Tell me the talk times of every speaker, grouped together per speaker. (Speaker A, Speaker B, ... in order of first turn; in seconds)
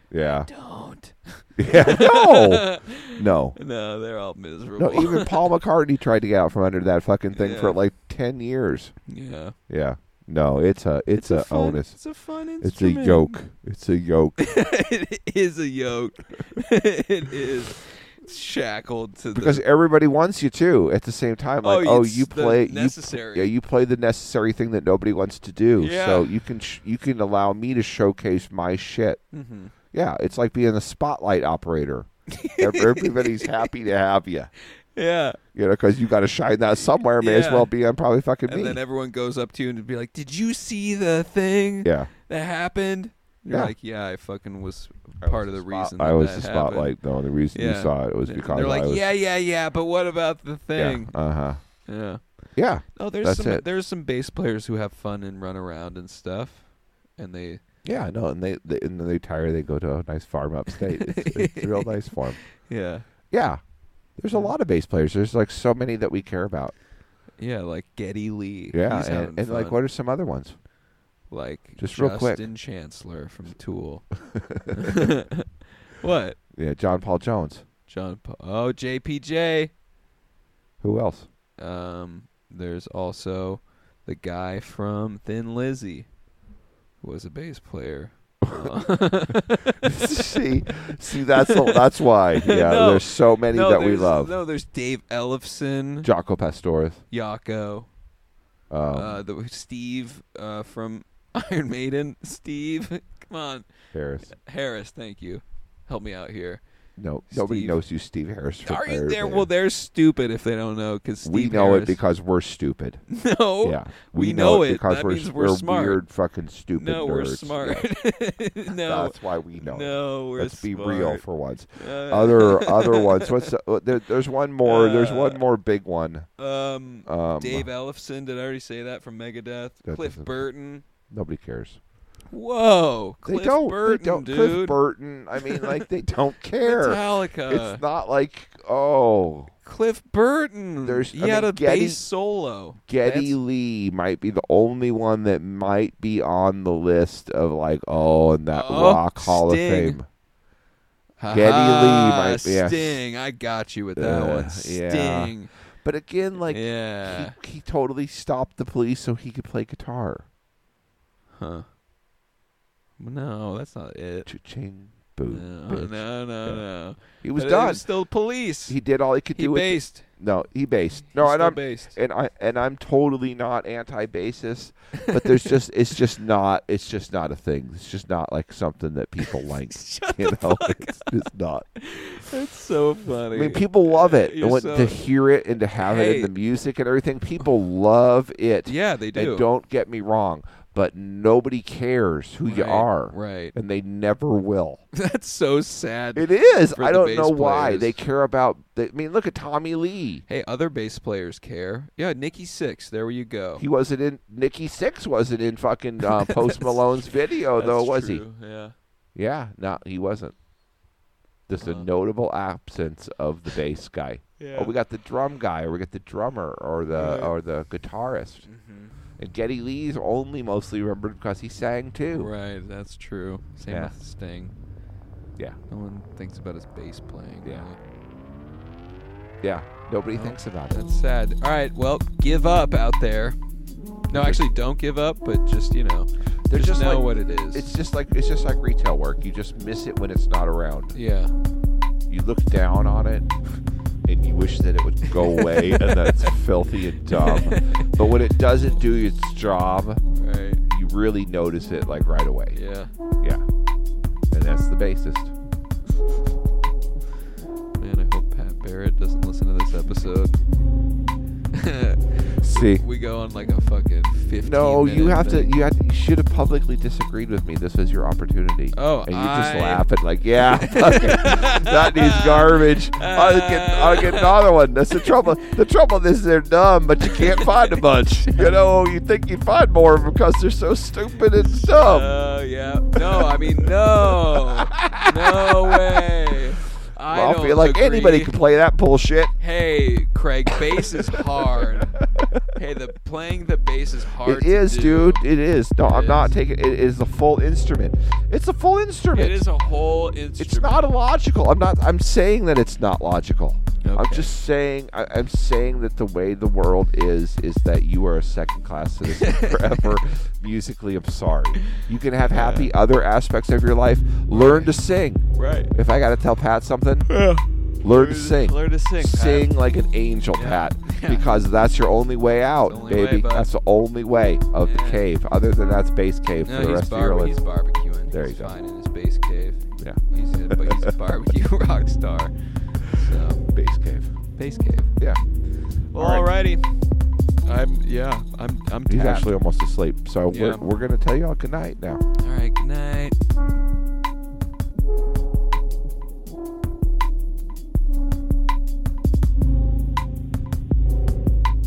Speaker A: 0.1-0.5, 1.6-3.6, 4.8-9.0, 9.7-14.4, 19.3-29.2, 29.9-34.5, 35.5-38.8, 41.8-42.1, 43.5-43.8, 45.2-49.1, 50.8-51.9, 52.5-53.6, 57.8-62.5, 63.3-66.8, 68.7-70.6, 71.8-72.5, 76.5-77.6, 80.8-81.3, 88.5-89.0, 89.7-94.4, 96.0-97.0, 98.7-99.2, 103.9-104.3, 107.0-109.5, 111.2-117.9, 118.8-126.3, 127.0-127.7, 129.8-130.4, 131.1-131.8, 133.2-139.5, 140.8-142.1, 142.8-150.1, 151.3-153.0, 153.9-160.3, 164.3-181.7, 183.3-194.8, 196.2-200.2, 203.6-208.3, 209.2-210.4, 211.5-218.5, 219.2-222.3, 223.7-223.9, 229.4-230.8, 234.1-234.5, 236.5-241.0, 242.1-243.3, 244.0-250.1, 250.7-253.4, 254.3-255.3, 262.4-262.9, 264.4-282.1, 284.5-286.0, 287.1-289.3, 294.2-299.5, 300.4-317.3, 317.8-328.6, 329.8-330.8, 333.5-334.4, 335.0-336.3, 338.9-342.0
Speaker B: 0.2-5.5, 7.3-7.8, 9.1-9.6, 11.2-13.4, 14.4-19.6, 21.6-23.5, 25.8-26.3, 29.3-29.7, 32.3-33.5, 35.0-35.4, 37.2-37.7, 38.5-57.6, 61.2-61.9, 62.6-63.0, 64.3-64.6, 67.4-69.8, 71.3-75.4, 76.0-76.4, 77.9-79.7, 81.6-86.1, 87.0-90.4, 91.3-91.8, 92.3-96.1, 97.1-97.9, 98.9-103.7, 104.3-106.6, 107.3-107.8, 108.6-112.0, 113.1-116.0, 116.7-123.3, 124.6-125.4, 126.4-130.8, 132.3-134.8, 135.4-135.7, 136.6-137.8, 139.7-143.4, 148.5-150.0, 151.2-155.5, 156.4-157.3, 161.4-161.7, 163.0-164.3, 165.3-168.8, 169.3-170.1, 171.2-172.0, 175.0-175.5, 179.7-181.1, 181.8-185.1, 185.7-186.3, 188.7-189.5, 192.5-193.5, 194.9-198.0, 200.3-203.6, 206.3-208.8, 211.6-211.9, 214.4-214.7, 216.9-217.3, 218.4-219.0, 222.1-224.5, 225.7-227.8, 230.1-233.4, 234.1-237.7, 240.9-241.3, 245.2-246.3, 247.1-247.9, 250.1-250.6, 252.5-252.9, 257.7-260.4, 261.5-265.6, 268.7-269.9, 270.6-274.4, 277.1-277.5, 281.6-288.3, 289.4-292.0, 292.6-295.2, 295.8-296.4, 299.1-300.9, 303.8-304.3, 309.2-309.9, 312.3-312.7, 314.3-314.8, 315.4-315.7, 317.1-319.5, 320.3-321.4, 322.6-323.5, 324.6-325.1, 326.4-333.5, 334.4-335.0, 335.9-339.3, 340.3-340.7, 342.2-343.2